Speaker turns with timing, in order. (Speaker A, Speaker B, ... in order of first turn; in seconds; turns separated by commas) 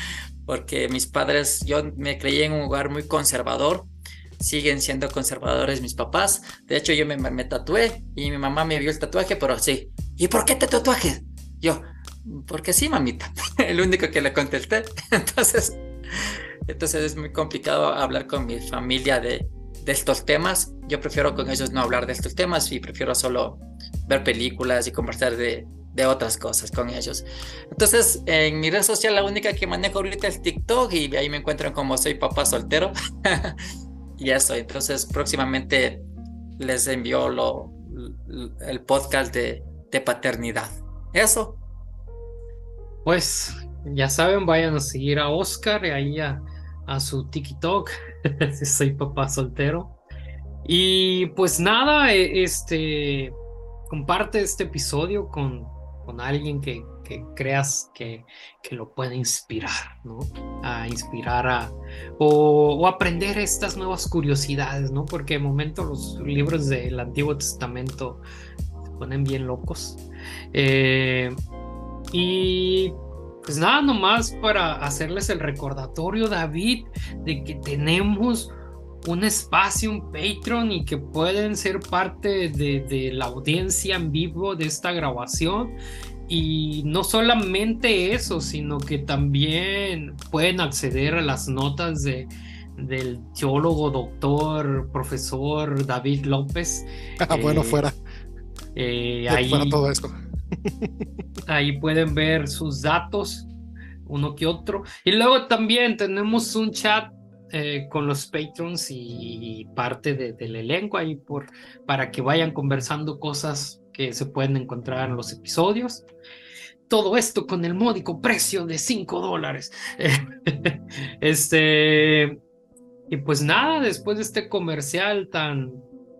Speaker A: 0.5-15.8, Speaker A: 16.7-33.6, Speaker A: 34.2-36.0, Speaker A: 36.6-41.6, Speaker B: 43.0-50.0, Speaker B: 50.6-53.4, Speaker B: 53.9-68.2, Speaker B: 69.0-70.0, Speaker B: 70.5-71.4, Speaker B: 72.1-78.5, Speaker B: 79.0-85.8, Speaker B: 86.3-97.8, Speaker C: 97.2-98.0, Speaker B: 98.7-99.8, Speaker C: 99.3-100.9, Speaker B: 101.5-103.5, Speaker B: 104.0-116.0, Speaker B: 116.9-122.4, Speaker B: 123.1-125.8